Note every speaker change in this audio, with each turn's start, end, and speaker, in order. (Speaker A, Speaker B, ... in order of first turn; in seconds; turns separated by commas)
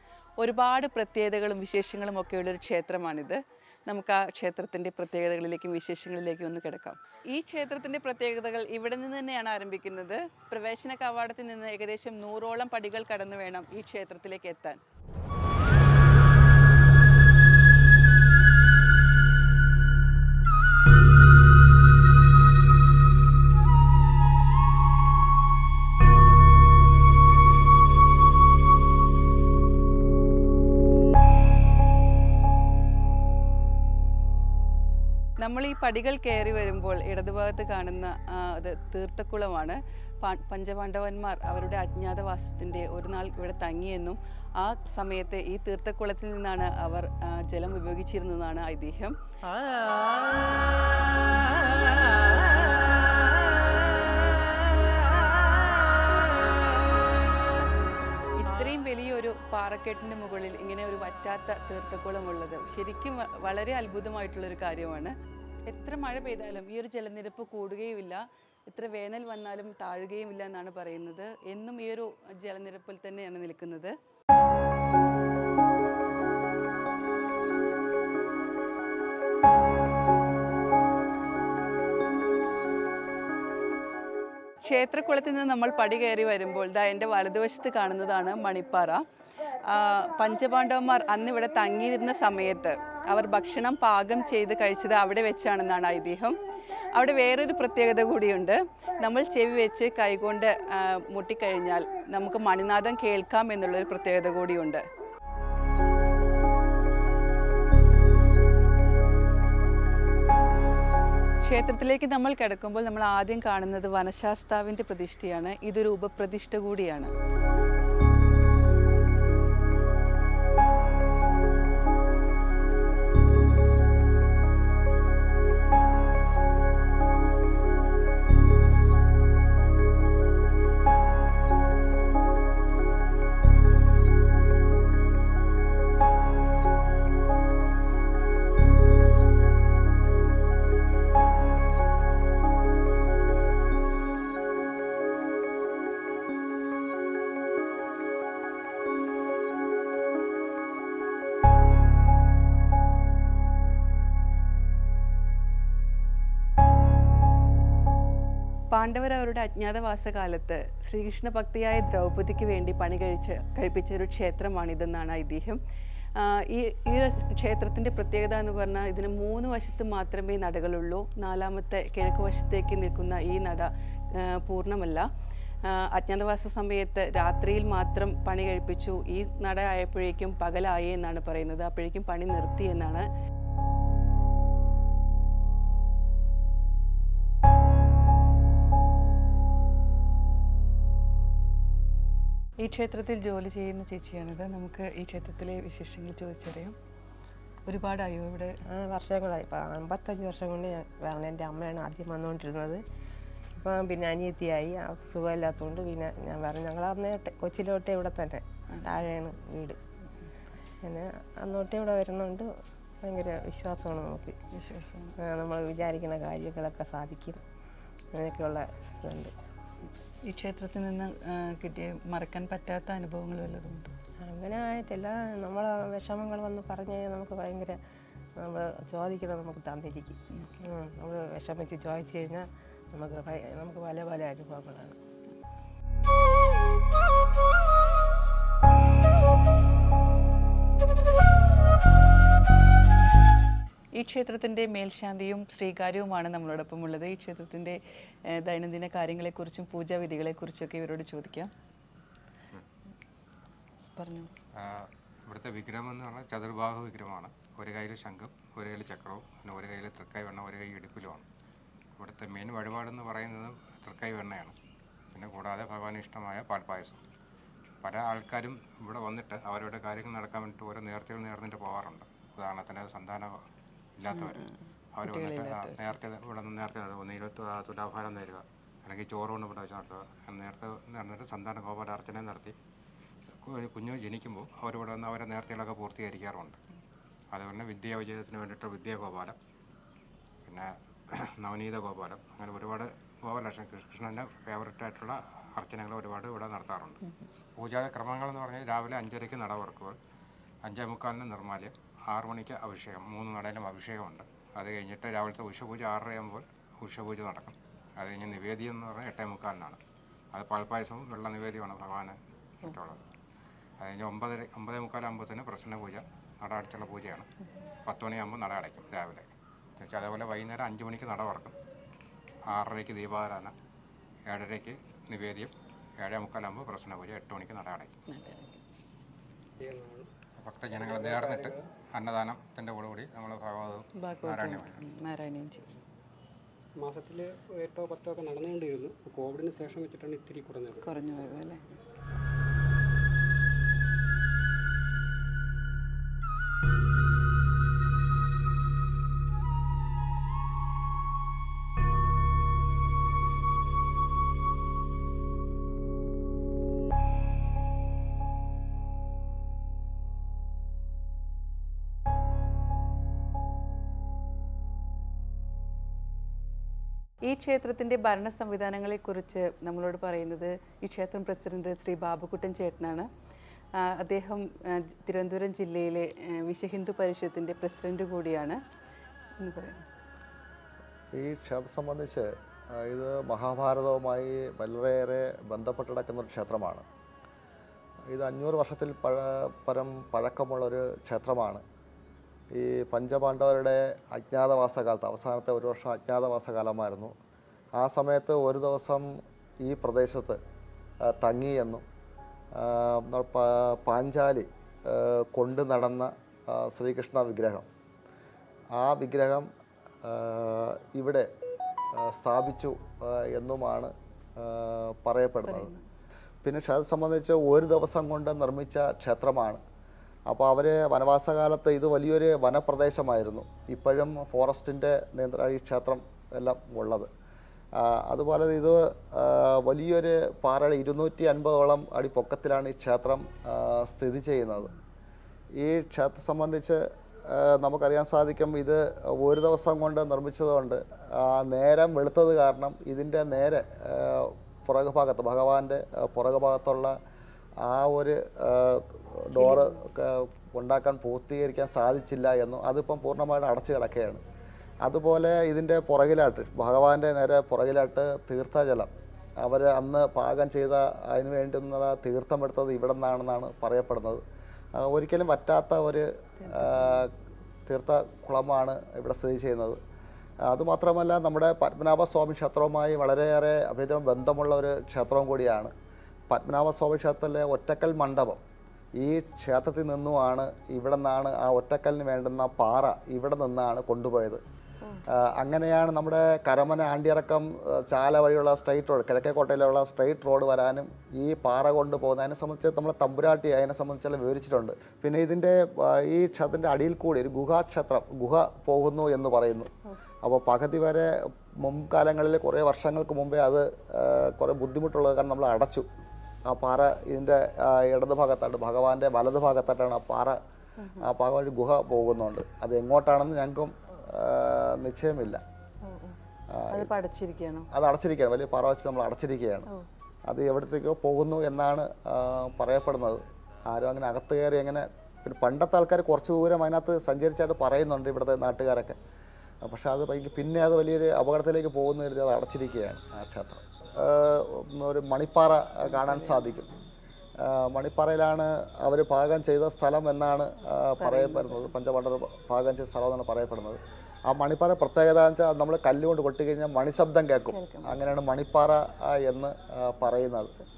Speaker A: 0.4-14.8, Speaker A: 35.4-49.1, Speaker A: 58.4-65.1, Speaker A: 65.7-73.9, Speaker A: 84.6-89.0, Speaker A: 89.7-96.4, Speaker A: 97.0-104.8, Speaker A: 111.4-117.1, Speaker A: 158.7-165.6, Speaker A: 166.2-175.1, Speaker A: 175.7-183.1, Speaker A: 192.6-196.8, Speaker A: 197.7-198.6, Speaker B: 198.7-202.8, Speaker B: 203.6-209.8, Speaker B: 210.8-212.5, Speaker B: 213.0-214.3, Speaker A: 214.5-215.2, Speaker B: 215.2-217.4, Speaker B: 218.1-219.3, Speaker A: 220.2-223.9, Speaker B: 224.3-227.8, Speaker B: 228.4-235.0, Speaker A: 243.9-251.5, Speaker A: 254.0-254.3, Speaker C: 254.6-261.2, Speaker C: 262.0-264.6, Speaker C: 265.1-267.0, Speaker C: 267.8-273.3, Speaker C: 274.0-274.4, Speaker A: 274.1-275.9, Speaker C: 274.9-282.6, Speaker C: 283.5-286.6, Speaker C: 287.3-289.4, Speaker C: 290.5-297.0, Speaker C: 297.6-300.0, Speaker C: 300.6-309.8, Speaker C: 310.3-313.0, Speaker C: 313.8-317.3, Speaker C: 317.9-319.3, Speaker C: 319.8-321.6, Speaker C: 322.5-323.6, Speaker C: 324.3-327.9, Speaker A: 328.1-328.6, Speaker D: 329.6-330.1, Speaker C: 330.4-334.8, Speaker D: 330.7-331.7, Speaker A: 334.0-335.7, Speaker D: 336.8-340.9, Speaker A: 340.8-341.7, Speaker A: 367.2-373.1, Speaker A: 373.8-378.6, Speaker A: 379.4-379.8, Speaker E: 381.1-386.9, Speaker E: 388.1-391.6, Speaker E: 392.5-397.1, Speaker E: 397.8-399.1, Speaker E: 399.6-400.4, Speaker E: 401.1-401.8, Speaker E: 402.6-407.7, Speaker E: 408.8-409.5, Speaker E: 410.0-411.3, Speaker E: 411.9-415.7, Speaker A: 415.4-415.8, Speaker E: 416.4-419.6, Speaker E: 420.3-427.1, Speaker E: 427.8-434.7, Speaker E: 435.6-447.0, Speaker E: 447.6-454.2, Speaker A: 449.4-449.9, Speaker E: 454.9-458.9, Speaker E: 459.4-464.2, Speaker E: 464.8-467.1, Speaker A: 466.4-467.1, Speaker E: 467.7-469.8, Speaker E: 470.5-475.7, Speaker E: 476.3-478.4, Speaker E: 479.0-484.4, Speaker E: 485.1-499.7, Speaker E: 500.2-505.9, Speaker E: 506.5-510.4, Speaker A: 510.8-511.1, Speaker E: 511.0-515.4, Speaker A: 515.8-516.2, Speaker E: 516.5-516.9, Speaker A: 516.7-517.7, Speaker E: 517.7-519.7, Speaker E: 520.3-523.2, Speaker E: 523.7-529.0, Speaker E: 529.6-536.7, Speaker A: 535.8-536.7, Speaker E: 537.4-550.5, Speaker A: 541.0-541.7, Speaker A: 547.5-548.0